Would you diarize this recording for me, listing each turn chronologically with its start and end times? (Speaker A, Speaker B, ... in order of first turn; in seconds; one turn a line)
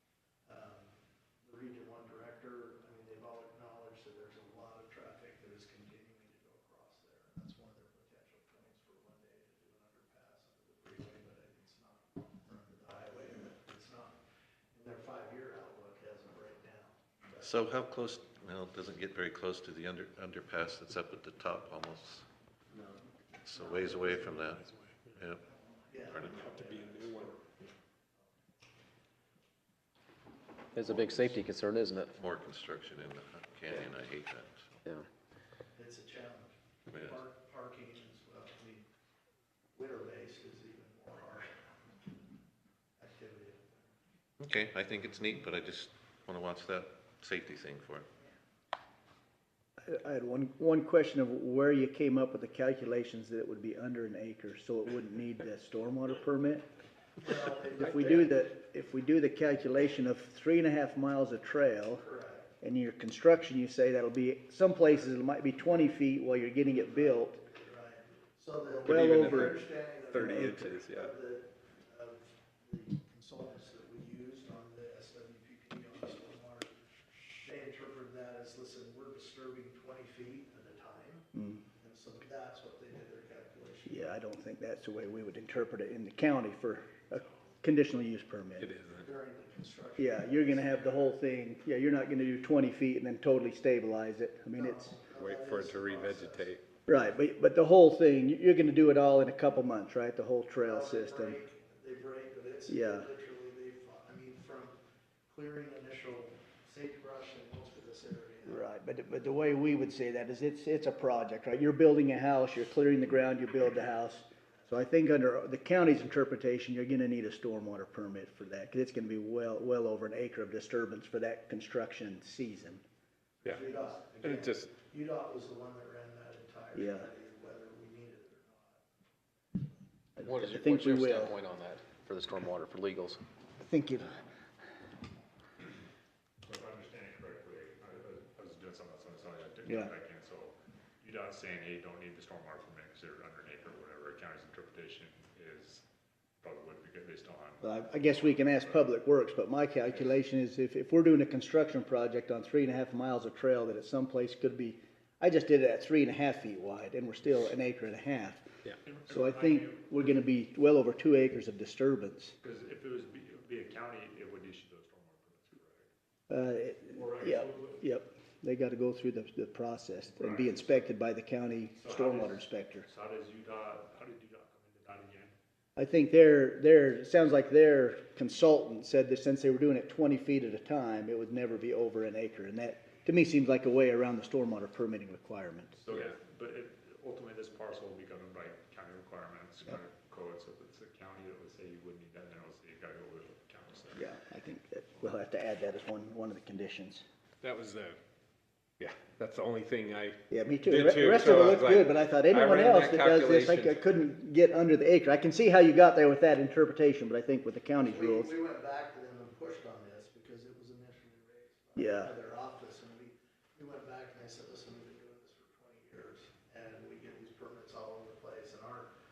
Speaker A: 0.5-0.9
Speaker A: 1.4-14.2
Speaker A: 14.7-17.5
Speaker B: 17.4-22.3
Speaker B: 23.4-25.4
Speaker A: 25.9-27.5
Speaker B: 26.1-26.5
Speaker C: 26.5-27.0
Speaker D: 30.8-32.1
Speaker B: 32.1-34.8
Speaker A: 35.8-38.9
Speaker B: 36.9-37.2
Speaker A: 39.8-41.5
Speaker A: 43.0-43.9
Speaker B: 44.4-48.1
Speaker E: 49.8-56.7
Speaker A: 57.2-58.4
Speaker E: 57.8-62.0
Speaker A: 62.0-62.5
Speaker E: 62.6-67.4
Speaker A: 66.9-76.7
Speaker E: 68.9-69.6
Speaker C: 68.9-71.1
Speaker E: 70.2-70.6
Speaker A: 77.4-81.3
Speaker E: 81.3-81.6
Speaker A: 81.8-84.1
Speaker E: 83.9-88.7
Speaker C: 88.6-89.1
Speaker A: 89.0-91.2
Speaker E: 90.0-95.0
Speaker A: 94.5-96.5
Speaker C: 95.1-96.6
Speaker E: 96.9-101.4
Speaker A: 100.6-108.7
Speaker E: 102.7-103.1
Speaker E: 108.5-122.8
Speaker A: 123.4-128.8
Speaker C: 124.2-124.7
Speaker E: 126.8-127.1
Speaker E: 130.2-131.4
Speaker D: 130.2-133.2
Speaker E: 133.6-134.2
Speaker F: 136.4-145.8
Speaker E: 139.7-139.9
Speaker F: 146.4-148.8
Speaker E: 147.6-158.5
Speaker F: 158.8-159.9
Speaker E: 159.1-162.3
Speaker F: 162.4-165.9
Speaker E: 166.3-172.9
Speaker F: 166.9-167.8
Speaker F: 170.1-170.8
Speaker F: 171.8-175.3
Speaker E: 175.8-185.8
Speaker F: 185.8-194.1
Speaker E: 193.9-197.0
Speaker C: 197.4-198.0
Speaker C: 198.8-203.8
Speaker E: 200.3-208.3
Speaker A: 207.8-218.9
Speaker E: 211.8-212.1